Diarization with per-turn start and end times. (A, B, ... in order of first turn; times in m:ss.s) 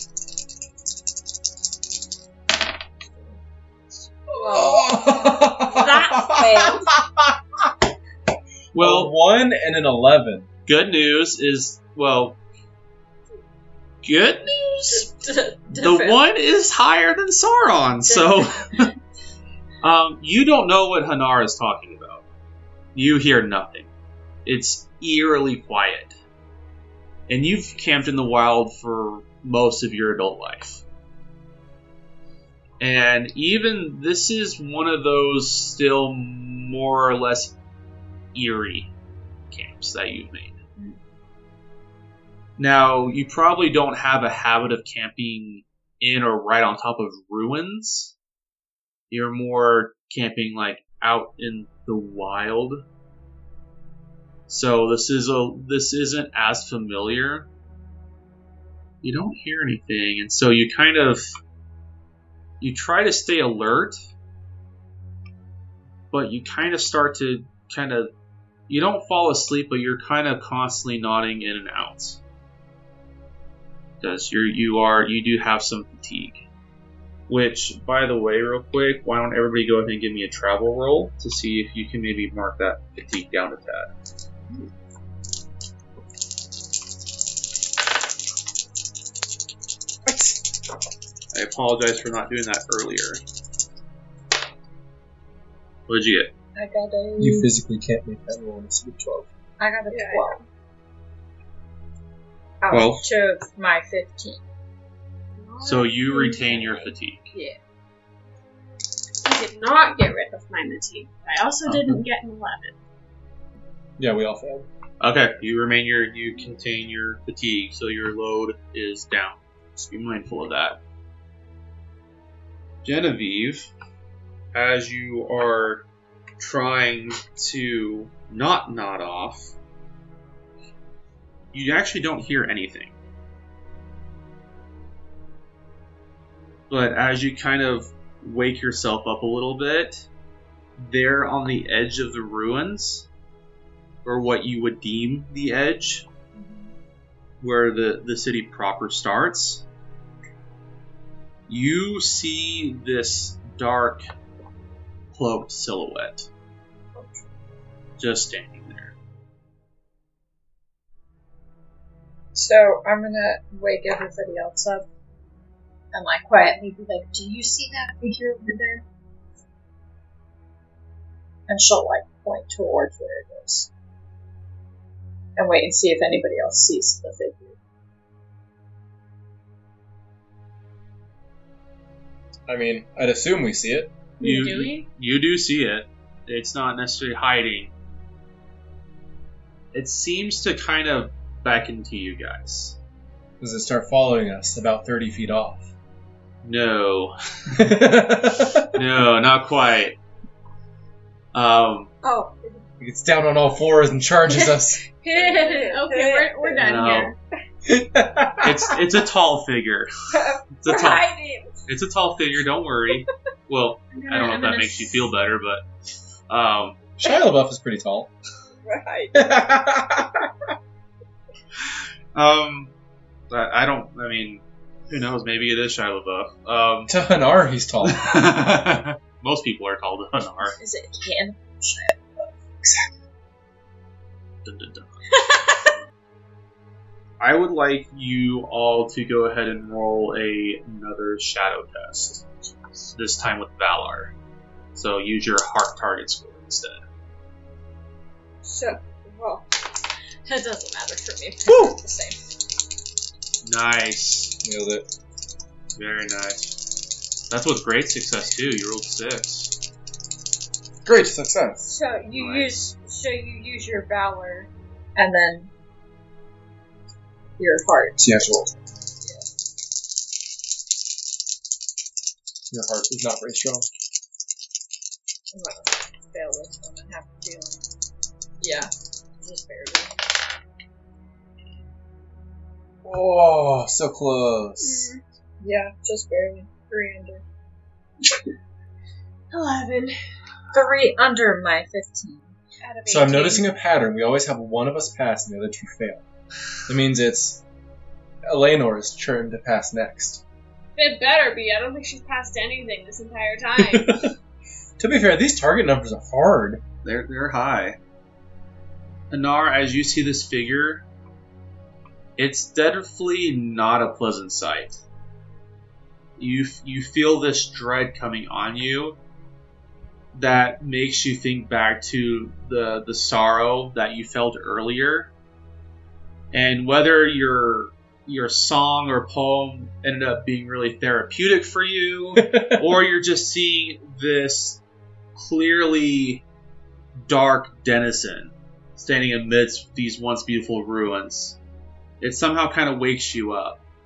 0:04.3-0:06.9 A
0:04.5-0:07.3 B
0:08.7-0:09.1 C
0:08.8-0:10.5 B
0:10.7-0:12.4 C
0:14.0-0:15.1 C
0:14.9-0:16.2 A
0:15.7-0:18.9 C
0:18.1-0:18.9 A
0:19.8-0:22.2 C
0:22.9-0:23.9 C
0:24.4-0:26.1 C
0:27.3-0:30.8 C
0:32.8-0:37.6 C
0:38.3-0:38.9 C
0:39.5-0:40.6 C
0:42.6-0:48.1 C
0:49.1-0:52.8 C
0:54.5-0:57.5 C
0:59.0-1:01.2 C
1:02.6-1:04.0 C
1:06.1-1:08.1 C
1:08.7-1:12.2 C
1:14.0-1:16.4 C
1:17.3-1:23.9 C
1:30.0-1:30.4 B
1:31.3-1:33.2 C
1:35.9-1:36.3 C
1:36.6-1:37.5 A
1:37.2-1:39.3 B
1:39.6-1:40.4 A
1:39.9-1:40.4 D
1:42.6-1:44.4 A
1:42.7-1:43.1 C
1:45.4-1:46.8 D
1:45.6-1:47.3 C
1:46.8-1:47.6 A
1:49.2-1:52.8 D
1:51.7-1:52.0 C
1:54.0-1:54.7 B
1:55.0-2:00.8 C
2:02.8-2:03.7 C
2:04.5-2:05.8 C
2:06.4-2:09.5 C
2:11.5-2:12.9 C
2:16.7-2:20.1 C
2:20.8-2:23.1 C
2:24.0-2:26.0 C
2:26.3-2:26.7 A
2:27.4-2:29.6 C
2:31.5-2:34.0 C
2:35.1-2:36.3 C
2:38.0-2:38.9 C
2:42.3-2:44.8 A
2:45.9-2:48.8 A
2:51.5-2:53.7 A
2:55.4-2:57.6 A
3:02.5-3:03.9 B
3:04.2-3:04.8 D
3:04.2-3:07.7 C
3:09.7-3:12.8 C
3:13.4-3:15.6 B
3:16.4-3:17.1 C
3:17.5-3:18.7 B
3:18.7-3:20.0 C
3:21.3-3:21.9 C
3:22.0-3:22.6 A
3:22.8-3:24.8 B
3:24.3-3:26.6 A
3:25.1-3:27.1 D
3:26.6-3:27.1 C
3:27.6-3:28.5 B
3:28.4-3:29.9 C
3:30.1-3:31.5 A
3:30.5-3:31.0 C
3:31.6-3:35.6 C
3:33.9-3:35.1 D
3:36.3-3:36.8 C
3:37.0-3:38.1 B
3:38.6-3:39.2 A
3:39.1-3:40.3 B
3:42.1-3:42.7 C
3:43.3-3:46.9 C
3:46.9-3:48.1 B
3:47.8-3:50.6 C
3:50.6-3:52.3 A
3:54.4-3:55.0 C
3:55.1-3:55.7 A
3:57.2-4:02.2 C
4:02.9-4:04.1 C
4:04.7-4:06.8 C
4:08.4-4:09.5 A
4:10.2-4:12.2 A
4:11.5-4:11.7 B
4:13.4-4:14.4 C
4:14.4-4:14.8 B
4:15.8-4:16.6 C
4:17.3-4:19.6 C
4:20.8-4:21.7 B
4:21.6-4:25.5 A
4:22.2-4:22.6 C
4:27.4-4:28.0 A
4:28.0-4:28.5 B
4:32.5-4:33.7 B
4:35.3-4:37.7 A
4:38.4-4:39.9 A
4:42.8-4:44.9 B
4:44.6-4:45.0 D
4:45.4-4:47.2 A
4:49.3-4:50.0 D
4:50.5-4:52.3 A
4:52.6-4:53.5 D
4:52.9-4:56.0 B
4:56.7-4:57.4 B
4:58.2-5:00.2 B
5:00.8-5:04.0 D
5:03.6-5:04.1 B
5:04.8-5:06.6 B
5:06.8-5:07.8 C
5:09.1-5:10.8 C
5:12.2-5:14.8 C
5:16.2-5:19.0 C
5:20.1-5:25.1 C
5:26.3-5:34.6 C
5:32.2-5:32.7 B
5:35.1-5:36.2 C
5:37.0-5:41.4 C
5:42.0-5:43.6 C